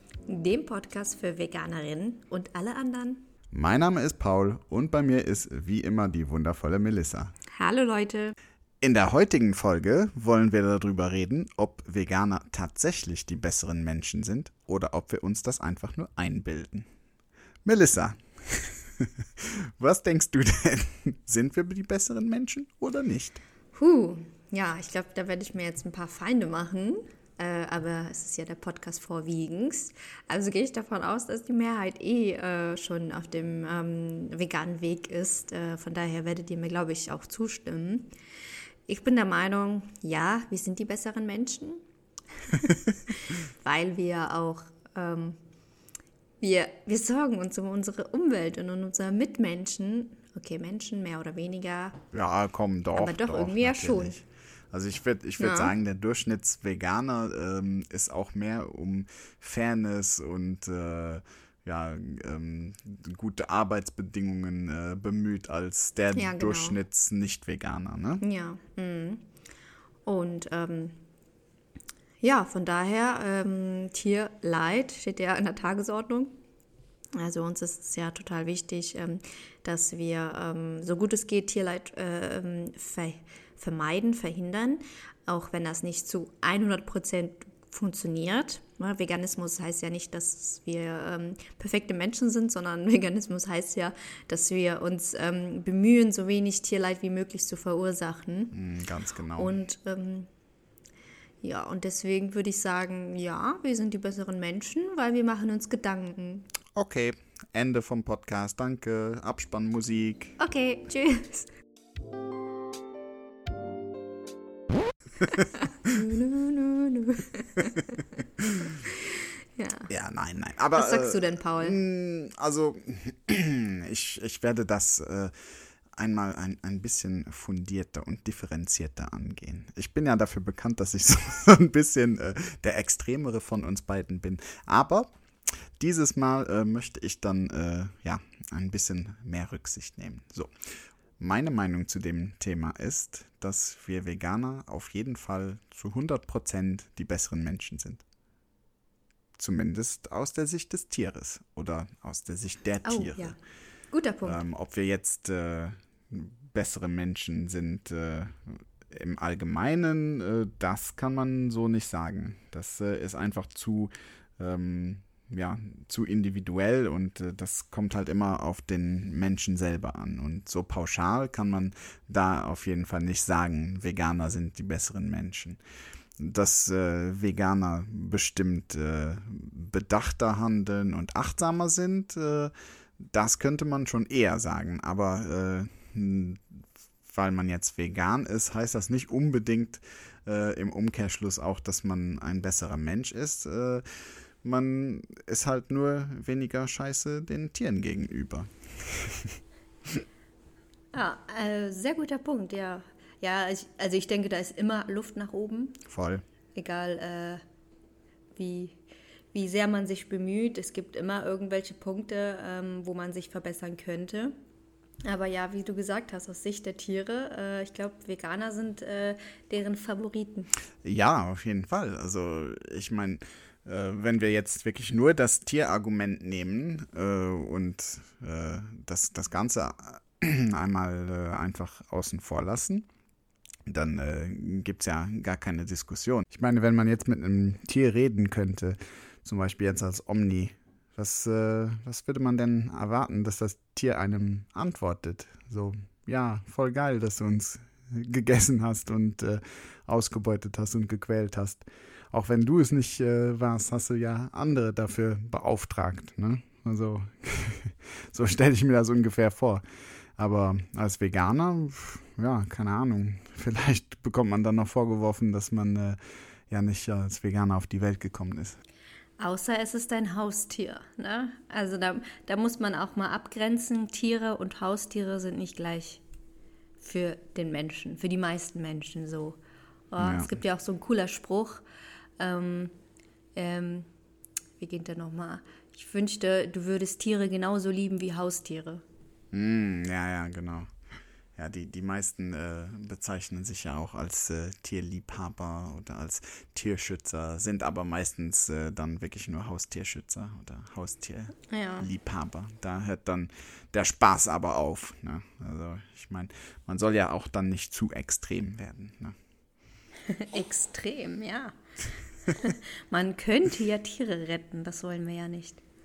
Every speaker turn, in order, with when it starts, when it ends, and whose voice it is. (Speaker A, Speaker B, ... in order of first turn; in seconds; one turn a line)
Speaker A: 0.3-3.3
Speaker B: 3.5-7.3
Speaker A: 7.5-8.3
Speaker B: 8.8-16.9
Speaker B: 17.6-23.4
Speaker A: 23.8-38.1
Speaker A: 38.9-41.8
Speaker A: 42.5-45.4
Speaker A: 46.4-52.0
Speaker B: 52.1-68.2
Speaker A: 53.0-54.2
Speaker A: 55.4-55.7
Speaker A: 66.1-66.8
Speaker A: 68.2-69.3
Speaker A: 70.1-71.0
Speaker A: 72.2-76.4
Speaker A: 77.1-98.6
Speaker B: 98.5-99.6
Speaker A: 99.4-100.3
Speaker A: 101.4-106.5
Speaker B: 106.8-110.4
Speaker A: 110.4-111.5
Speaker A: 115.2-119.9
Speaker B: 118.4-118.8
Speaker B: 119.9-125.3
Speaker A: 120.8-121.8
Speaker B: 126.0-148.0
Speaker B: 149.4-153.3
Speaker A: 152.8-153.4
Speaker A: 153.9-154.4
Speaker B: 154.2-175.6
Speaker B: 176.2-200.0
Speaker A: 200.9-205.8
Speaker B: 205.9-206.2
Speaker A: 206.6-207.4
Speaker A: 208.4-208.8
Speaker A: 209.3-214.3
Speaker A: 215.1-220.5
Speaker B: 220.8-232.9
Speaker B: 233.7-259.6
Speaker B: 260.2-266.0
Speaker B: 266.5-268.6
Speaker A: 269.2-276.0
Speaker A: 276.8-279.4
Speaker A: 279.9-281.6
Speaker B: 280.0-280.3
Speaker A: 282.2-282.7
Speaker A: 283.4-283.9
Speaker A: 284.6-288.8
Speaker B: 289.3-290.7
Speaker B: 291.4-309.2
Speaker A: 301.5-301.9
Speaker A: 310.1-311.6
Speaker A: 312.3-315.6